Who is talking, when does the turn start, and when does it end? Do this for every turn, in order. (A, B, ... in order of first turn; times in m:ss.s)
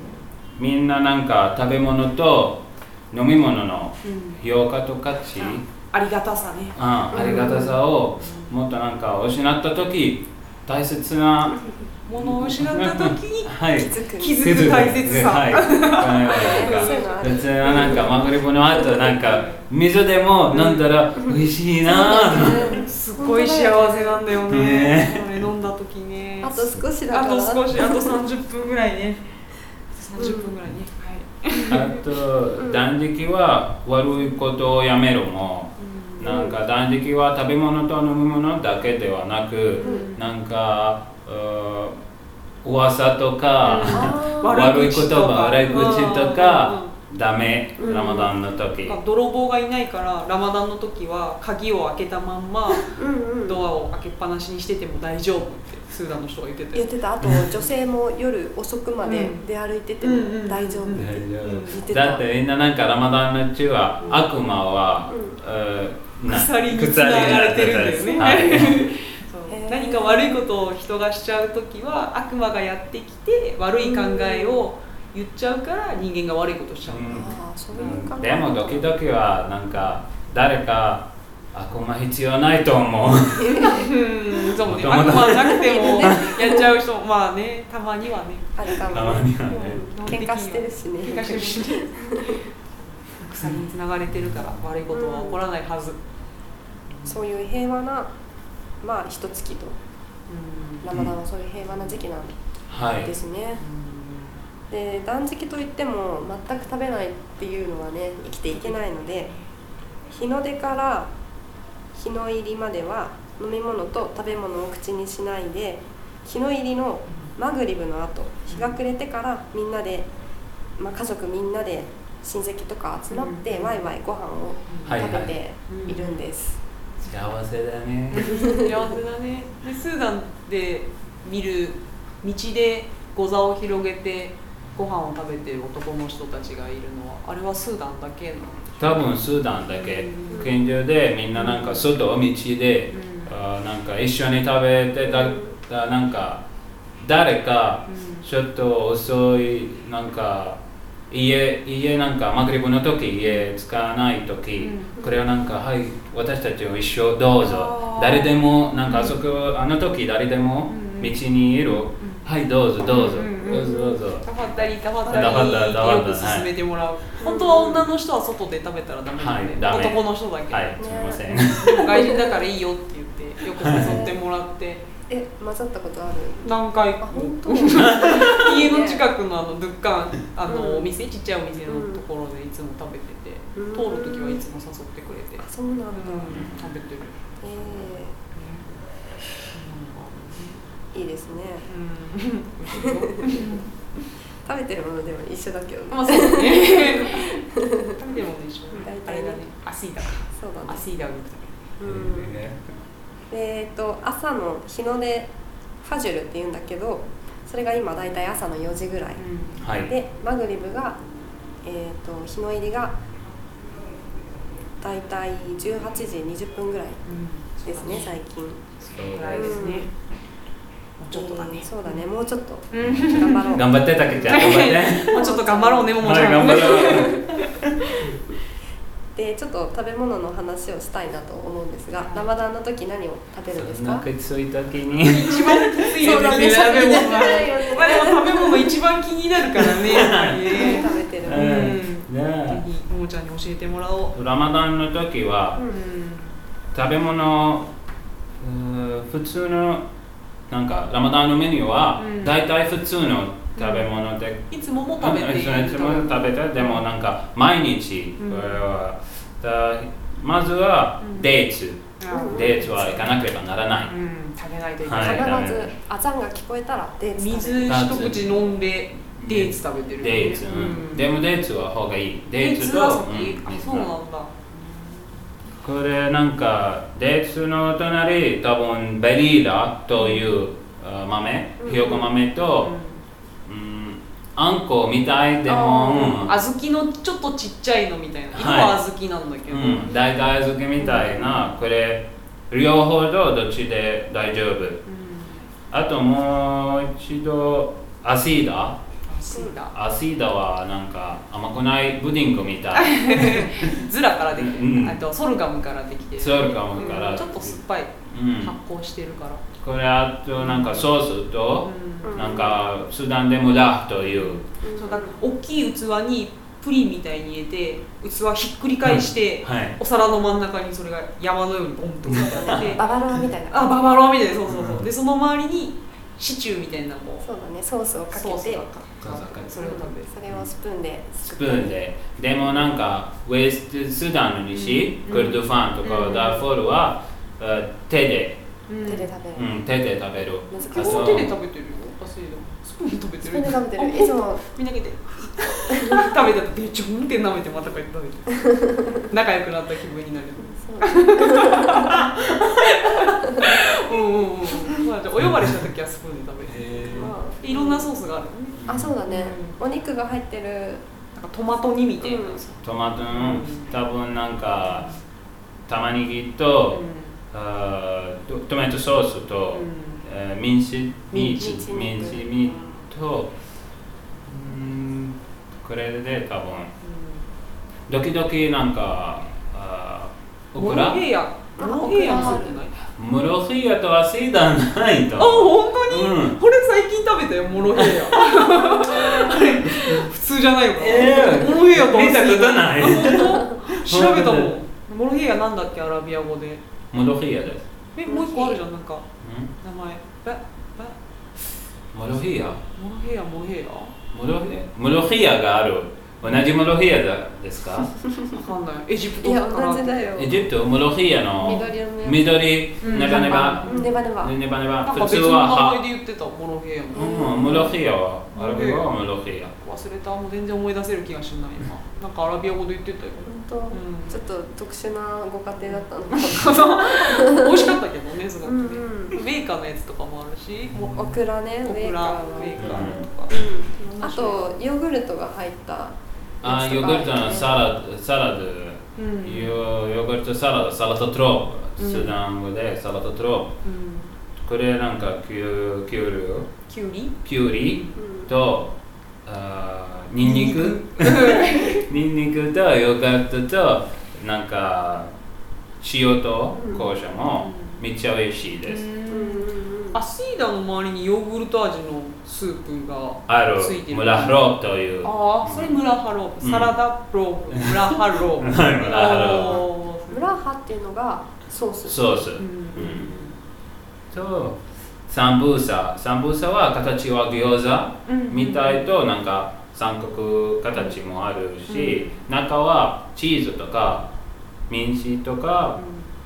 0:00.6-0:05.7 A
0:04.0-0:04.4 B
0:05.4-0:08.5 B
0:06.8-0:22.8 A
0:07.2-0:07.5 C
0:12.1-0:13.6 B
0:13.7-0:14.6 C
0:14.1-0:18.3 B
0:16.3-0:18.3 C
0:19.2-0:19.6 B
0:20.5-0:20.9 B
0:21.2-0:24.3 C
0:22.4-0:29.4 B
0:24.5-0:25.4 A
0:26.4-0:28.2 C
0:29.9-0:32.0 B
0:30.2-0:30.5 C
0:31.7-0:42.0 A
0:32.6-0:32.9 C
0:35.8-0:36.3 B
0:36.2-0:36.6 C
0:39.8-0:40.2 B
0:39.8-0:40.1 C
0:42.6-0:49.0 A
0:43.6-0:46.9 B
0:43.9-0:44.6 C
0:45.7-0:46.0 C
0:47.8-0:48.3 C
0:47.8-0:48.2 B
0:48.8-0:56.9 B
0:52.9-0:53.6 C
0:56.7-1:02.3 C
0:59.0-0:59.5 B
1:00.0-1:01.8 B
1:00.9-1:08.8 A
1:05.1-1:05.4 C
1:06.3-1:17.4 B
1:09.5-1:10.5 C
1:13.8-1:14.6 C
1:16.9-1:23.8 A
1:17.1-1:18.9 C
1:23.4-1:23.9 C
1:23.6-1:28.8 B
1:24.6-1:26.5 A
1:25.5-1:26.6 C
1:28.6-1:32.4 C
1:28.9-1:30.1 A
1:29.9-1:32.4 B
1:33.1-1:36.0 B
1:34.9-1:35.4 C
1:36.9-1:37.2 B
1:37.0-1:38.1 C
1:38.8-1:39.8 C
1:40.3-1:40.9 B
1:40.8-1:42.4 C
1:42.7-1:43.1 A
1:43.0-1:43.6 C
1:43.6-1:44.4 B
1:44.7-1:49.3 C
1:50.1-1:51.1 C
1:51.9-2:00.1 C
1:58.5-1:58.8 B
2:00.8-2:06.6 C
2:03.1-2:03.9 B
2:04.7-2:05.0 B
2:04.9-2:05.4 A
2:05.7-2:06.2 B
2:07.0-2:08.3 A
2:08.2-2:19.1 B
2:08.2-2:08.9 C
2:18.8-2:26.4 A
2:19.7-2:20.6 B
2:20.3-2:20.6 C
2:21.3-2:21.9 B
2:22.9-2:23.4 B
2:25.1-2:25.5 C
2:27.0-2:46.5 A
2:27.9-2:28.3 B
2:33.2-2:33.5 B
2:34.6-2:35.0 B
2:37.4-2:39.2 B
2:40.7-2:41.2 B
2:42.0-2:42.3 B
2:42.8-2:50.8 B
2:45.0-2:45.4 C
2:47.2-2:47.9 C
2:49.2-2:51.8 A
2:50.8-2:52.3 C
2:51.5-2:54.8 B
2:53.7-2:54.2 C
2:55.1-2:59.1 C
2:56.4-3:07.2 B
2:58.2-2:58.4 A
3:00.5-3:00.9 C
3:01.7-3:02.0 C
3:03.6-3:04.4 C
3:05.4-3:06.5 C
3:06.3-3:06.6 A
3:07.4-3:08.2 C
3:08.4-3:08.7 B
3:09.5-3:10.6 B
3:10.9-3:11.7 C
3:11.7-3:14.1 B
3:12.8-3:13.6 C
3:14.4-3:17.9 C
3:15.9-3:21.6 B
3:18.7-3:19.4 C
3:20.3-3:20.8 C
3:21.8-3:22.4 C
3:21.8-3:22.6 A
3:23.3-3:25.3 C
3:25.8-3:31.0 C
3:29.2-3:29.6 B
3:29.6-3:29.9 A
3:31.6-3:32.9 C
3:34.8-3:37.0 C
3:37.0-3:38.2 B
3:37.6-3:38.7 C
3:38.8-3:39.9 B
3:39.0-3:39.6 A
3:39.3-3:39.9 C
3:41.0-3:42.0 B
3:41.1-3:47.3 C
3:42.7-3:43.6 B
3:42.8-3:45.2 A
3:44.2-3:48.2 B
3:46.0-3:47.5 A
3:49.2-3:54.1 C
3:52.0-3:52.3 B
3:53.5-3:56.8 A
3:55.0-4:04.2 B
3:55.9-3:58.7 C
3:59.6-4:02.6 A
4:00.5-4:01.7 C
4:04.1-4:05.6 A
4:05.7-4:06.4 B
4:06.7-4:07.7 A
4:08.4-4:09.8 A
4:10.5-4:23.9 A
4:12.0-4:12.4 B
4:13.6-4:13.9 B
4:14.5-4:16.8 B
4:18.2-4:18.6 B
4:21.0-4:21.4 B
4:22.0-4:23.1 B
4:22.1-4:22.6 C
4:23.8-4:25.4 B
4:24.8-4:25.7 A
4:25.0-4:28.1 C
4:27.1-4:31.2 B
4:27.7-4:28.6 A
4:29.1-4:33.9 A
4:30.2-4:30.8 C
4:32.4-4:35.2 B
4:35.6-4:42.7 A
4:40.0-4:40.4 B
4:41.6-4:42.1 C
4:42.4-4:43.0 B
4:43.5-4:46.4 A
4:45.5-4:46.2 C
4:45.9-4:49.9 B
4:48.4-4:48.8 A
4:49.5-4:54.8 A
4:50.8-4:51.3 B
4:54.8-4:55.4 B
4:55.7-4:58.8 A
4:59.0-4:59.7 B
4:59.3-4:59.6 C
4:59.7-5:03.5 A
5:02.8-5:09.4 B
5:04.4-5:05.0 A
5:06.2-5:08.6 A
5:09.6-5:14.4 A
5:10.4-5:10.9 B
5:11.6-5:12.2 B
5:12.0-5:12.6 C
5:14.1-5:22.8 B
5:14.6-5:15.2 C
5:18.8-5:19.8 A
5:22.1-5:22.8 A
5:22.2-5:23.8 C
5:23.5-5:27.3 B
5:24.5-5:24.9 A
5:27.2-5:28.7 C
5:28.1-5:30.1 B
5:29.0-5:29.6 A
5:29.6-5:31.8 C
5:31.2-5:38.4 A
5:34.5-5:36.5 B
5:38.7-5:39.1 B
5:38.8-5:39.5 C
5:39.3-5:41.3 A
5:40.5-5:41.3 C
5:40.7-5:59.6 B
5:43.2-5:44.4 C
5:45.7-5:46.2 C
5:50.4-5:52.1 C
5:53.0-5:53.6 C
5:56.5-5:57.2 A
5:56.8-5:57.9 C
5:58.6-5:58.9 A
5:58.7-6:00.8 C
6:01.2-6:03.7 B
6:02.0-6:02.4 C
6:02.6-6:04.9 A
6:04.6-6:05.0 B
6:05.7-6:06.8 A
6:06.7-6:07.2 B
6:07.3-6:13.3 A
6:09.5-6:10.0 B
6:11.1-6:12.8 C
6:11.2-6:11.5 B
6:14.3-6:16.7 A
6:16.8-6:17.2 B
6:17.9-6:21.0 A
6:20.6-6:22.8 B
6:21.6-6:22.6 C
6:22.1-6:22.4 A
6:23.0-6:26.4 A
6:25.2-6:36.6 B
6:27.8-6:28.2 A
6:29.5-6:30.0 A
6:30.8-6:34.5 A
6:36.9-6:37.6 A
6:38.0-6:39.0 B
6:38.1-6:38.6 C
6:39.2-6:39.5 A
6:39.6-6:41.0 B
6:41.9-6:42.6 A
6:42.8-6:44.0 B
6:44.1-6:48.0 A
6:46.2-6:46.5 B
6:48.3-6:50.1 B
6:49.2-6:50.5 C
6:50.2-6:55.8 A
6:51.4-6:52.4 C
6:51.4-6:51.7 B
6:52.8-6:54.0 B
6:52.9-6:54.4 C
6:54.8-6:57.7 B
6:56.9-6:57.7 C
6:57.0-6:59.5 A
6:58.4-6:58.9 B
6:59.6-7:04.2 B
7:03.2-7:07.8 C
7:05.6-7:11.1 B
7:08.4-7:09.2 C
7:10.9-7:17.6 C
7:11.6-7:14.4 B
7:12.6-7:13.0 A
7:16.4-7:23.6 A
7:19.0-7:19.5 B
7:21.8-7:22.2 B
7:23.6-7:24.1 B
7:24.4-7:26.5 A
7:26.7-7:27.2 B
7:27.2-7:28.7 A
7:27.9-7:28.3 C
7:29.3-7:35.1 A
7:30.2-7:31.9 B
7:35.8-7:38.9 A
7:36.6-7:36.8 C
7:37.4-7:37.8 B
7:38.7-7:44.4 B
7:39.1-7:40.0 C
7:43.3-7:45.8 A
7:45.0-7:50.3 B
7:46.4-7:46.8 A
7:47.8-7:49.7 A
7:50.1-7:52.3 C
7:51.8-7:53.2 A
7:52.4-7:53.4 B
7:54.1-8:04.1 A
7:58.1-7:58.8 B
8:01.7-8:02.2 B
8:04.7-8:05.8 A
8:05.8-8:06.1 B